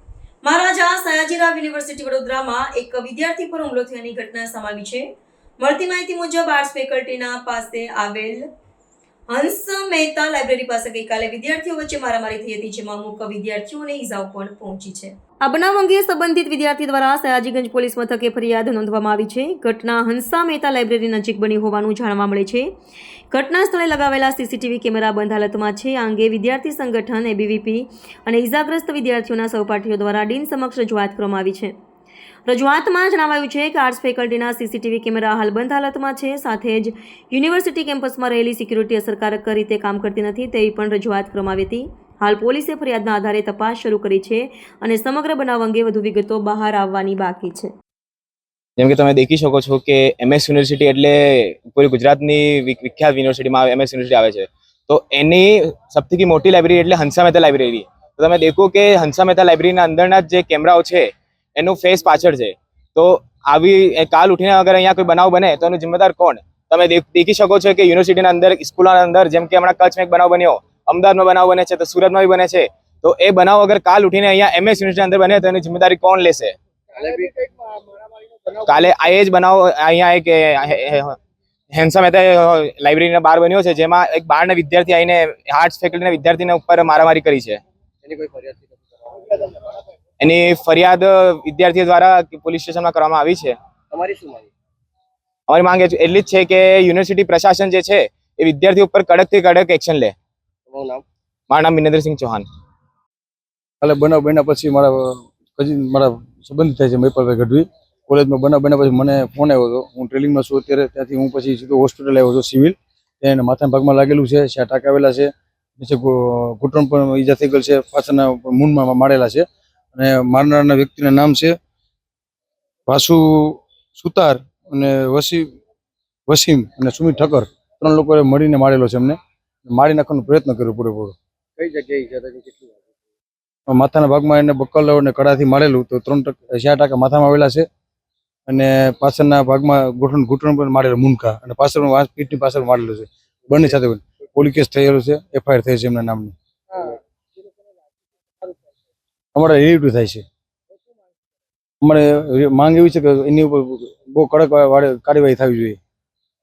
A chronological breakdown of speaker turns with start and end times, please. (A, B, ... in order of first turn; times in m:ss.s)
0:00.4-0:05.1 A
0:05.6-0:08.4 A
0:09.3-0:22.7 A
0:23.3-0:31.7 A
0:32.4-0:47.7 A
0:48.8-1:16.6 B
1:17.0-1:17.4 C
1:18.6-1:21.2 B
1:21.7-1:27.6 B
1:28.0-1:29.5 C
1:30.2-1:33.6 B
1:33.9-1:34.5 C
1:35.5-1:40.1 B
1:40.7-1:41.0 C
1:41.5-1:42.4 B
1:43.8-2:01.5 D
2:02.9-2:05.4 D
2:06.3-2:11.1 D
2:11.6-2:12.9 C
2:13.7-2:17.6 D
2:18.5-2:26.3 D
2:29.3-2:30.2 D
2:31.8-2:35.8 D